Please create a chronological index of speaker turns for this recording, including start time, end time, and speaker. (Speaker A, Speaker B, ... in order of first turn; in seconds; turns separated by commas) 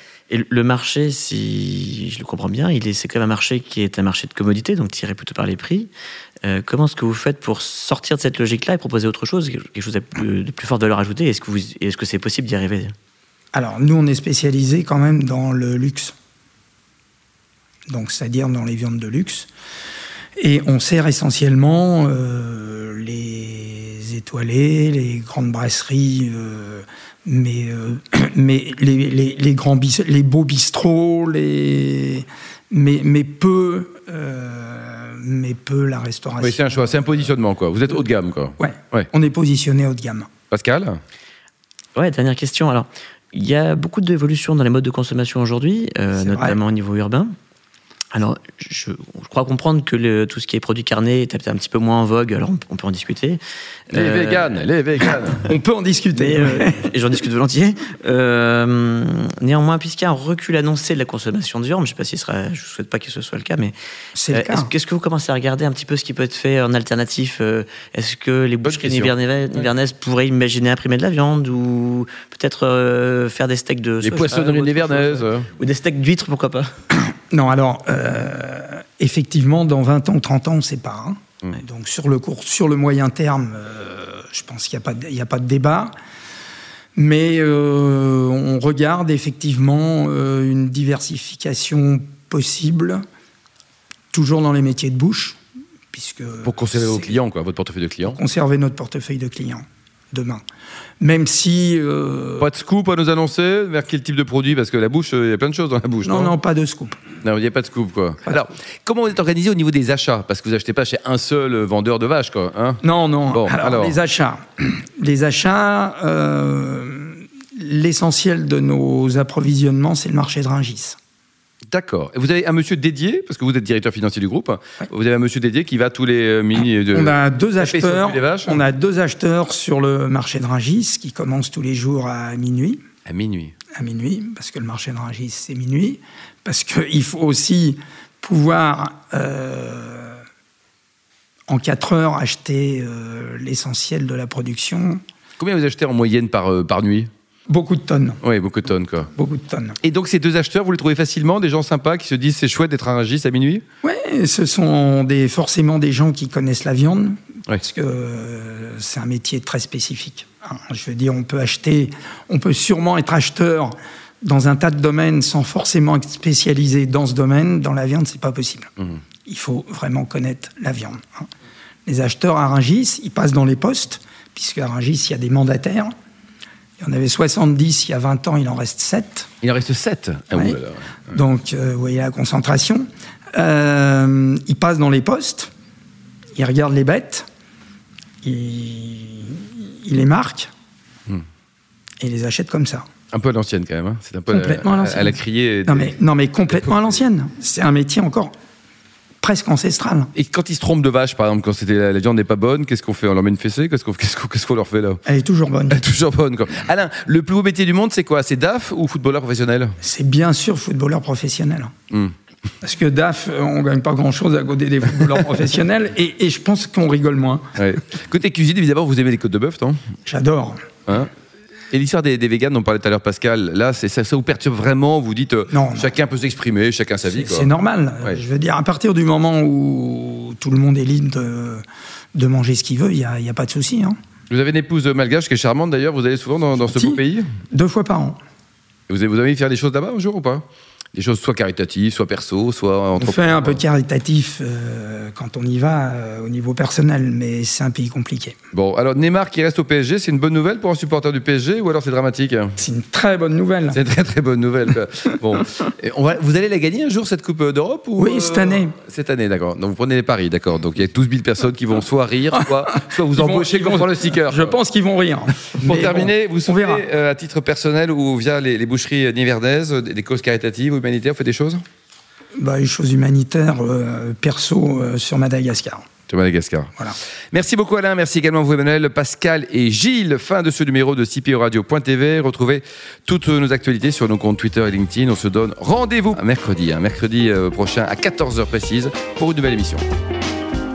Speaker A: 0.3-5.9, Speaker A: 6.5-12.9, Speaker B: 13.5-16.1, Speaker B: 17.9-19.5, Speaker B: 20.4-37.2, Speaker C: 36.4-39.1, Speaker B: 38.6-40.3, Speaker C: 40.5-41.0, Speaker A: 42.0-47.3, Speaker B: 46.2-46.6, Speaker A: 48.1-53.4, Speaker C: 53.9-55.5, Speaker A: 53.9-54.5, Speaker B: 55.4-56.9, Speaker A: 56.3-63.7, Speaker B: 64.1-64.7, Speaker A: 64.4-76.7, Speaker C: 68.6-69.7, Speaker C: 74.0-75.5, Speaker B: 77.1-85.9, Speaker B: 87.0-93.0, Speaker B: 94.1-95.4, Speaker B: 95.9-97.2, Speaker C: 96.4-98.2, Speaker B: 98.0-100.4, Speaker B: 101.0-102.5, Speaker C: 102.4-106.3, Speaker B: 106.0-107.0, Speaker C: 107.2-114.0, Speaker B: 112.8-121.0, Speaker C: 121.7-128.6, Speaker B: 126.8-132.8, Speaker C: 133.1-133.5, Speaker B: 133.7-140.2, Speaker B: 141.5-145.0, Speaker C: 145.4-147.1, Speaker B: 147.5-148.2, Speaker C: 148.2-149.1, Speaker B: 149.1-149.8, Speaker C: 149.8-153.6, Speaker B: 153.8-168.7, Speaker B: 169.3-171.3, Speaker B: 171.9-175.9, Speaker B: 176.8-179.3, Speaker C: 179.4-180.8, Speaker B: 180.3-180.6, Speaker B: 181.1-185.5, Speaker B: 186.4-187.3, Speaker B: 188.2-190.5, Speaker B: 192.0-192.9, Speaker C: 193.1-195.9, Speaker B: 194.3-198.3, Speaker C: 196.5-197.0, Speaker B: 199.2-200.1, Speaker C: 200.2-205.0, Speaker B: 205.1-205.8, Speaker C: 205.7-209.8, Speaker B: 209.8-211.7, Speaker B: 212.6-217.5, Speaker C: 217.6-219.8, Speaker B: 220.1-220.7, Speaker C: 221.7-227.5, Speaker B: 225.5-225.9, Speaker B: 227.1-231.6, Speaker B: 232.2-234.0, Speaker C: 234.3-237.3, Speaker B: 236.6-238.2, Speaker C: 238.9-243.6, Speaker B: 243.0-248.4, Speaker C: 248.5-252.5, Speaker B: 252.6-253.8, Speaker C: 253.7-264.6, Speaker B: 258.0-258.8, Speaker B: 263.1-266.9, Speaker C: 265.6-271.6, Speaker B: 272.4-275.8, Speaker C: 276.1-276.7, Speaker C: 277.3-289.8